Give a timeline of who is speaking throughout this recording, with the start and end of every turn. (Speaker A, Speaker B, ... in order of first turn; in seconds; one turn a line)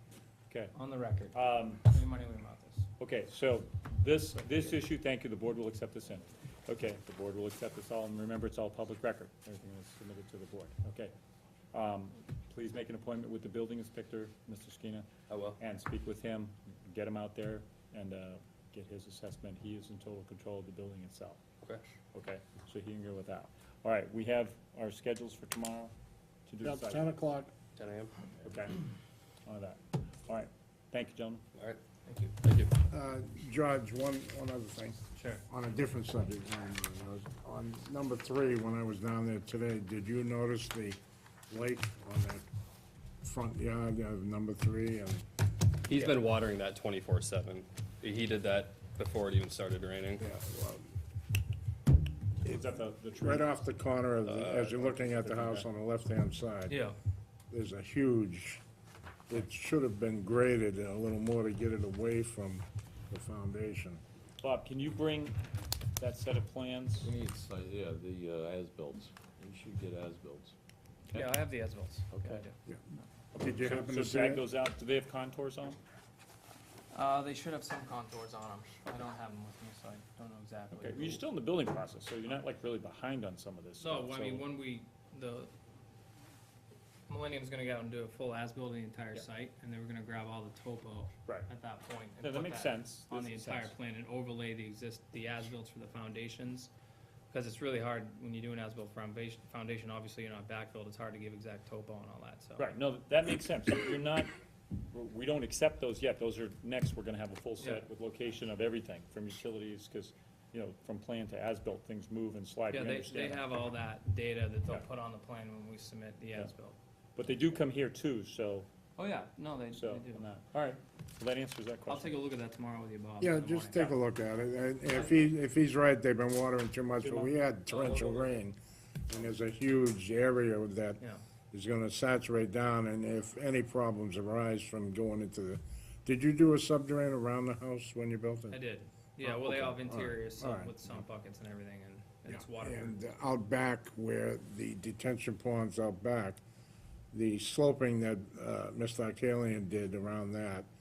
Speaker A: 0.7-2.8
Speaker B: 1.3-1.8
Speaker B: 3.0-11.1
Speaker B: 11.7-21.4
Speaker C: 15.3-15.6
Speaker B: 22.1-25.9
Speaker B: 26.5-27.1
Speaker D: 26.6-27.5
Speaker C: 27.8-28.1
Speaker B: 28.4-28.8
Speaker B: 29.4-31.4
Speaker C: 31.5-31.8
Speaker A: 32.1-32.3
Speaker C: 32.4-32.8
Speaker D: 32.9-42.4
Speaker D: 43.2-45.2
Speaker C: 45.9-50.2
Speaker D: 50.2-50.9
Speaker D: 52.5-56.8
Speaker B: 52.5-53.5
Speaker C: 54.2-54.8
Speaker B: 54.7-55.7
Speaker A: 56.7-57.0
Speaker D: 57.5-58.6
Speaker D: 59.3-64.0
Speaker B: 64.4-65.4
Speaker B: 66.0-67.1
Speaker E: 67.0-70.5
Speaker E: 71.1-71.5
Speaker A: 71.2-72.5
Speaker E: 72.1-72.5
Speaker D: 73.3-74.4
Speaker B: 73.6-75.8
Speaker A: 76.9-81.2
Speaker B: 80.7-84.5
Speaker A: 83.8-85.5
Speaker A: 87.1-96.7
Speaker B: 92.2-93.7
Speaker A: 97.3-102.7
Speaker B: 102.6-104.3
Speaker B: 104.9-113.5
Speaker A: 112.7-116.8
Speaker B: 117.2-118.7
Speaker A: 119.0-120.2
Speaker B: 119.7-122.2
Speaker A: 121.9-123.7
Speaker D: 123.2-138.6
Speaker B: 127.0-127.3
Speaker C: 127.7-128.4
Speaker A: 138.5-142.9
Speaker D: 139.2-141.1
Speaker D: 142.3-146.4
Speaker D: 147.1-150.7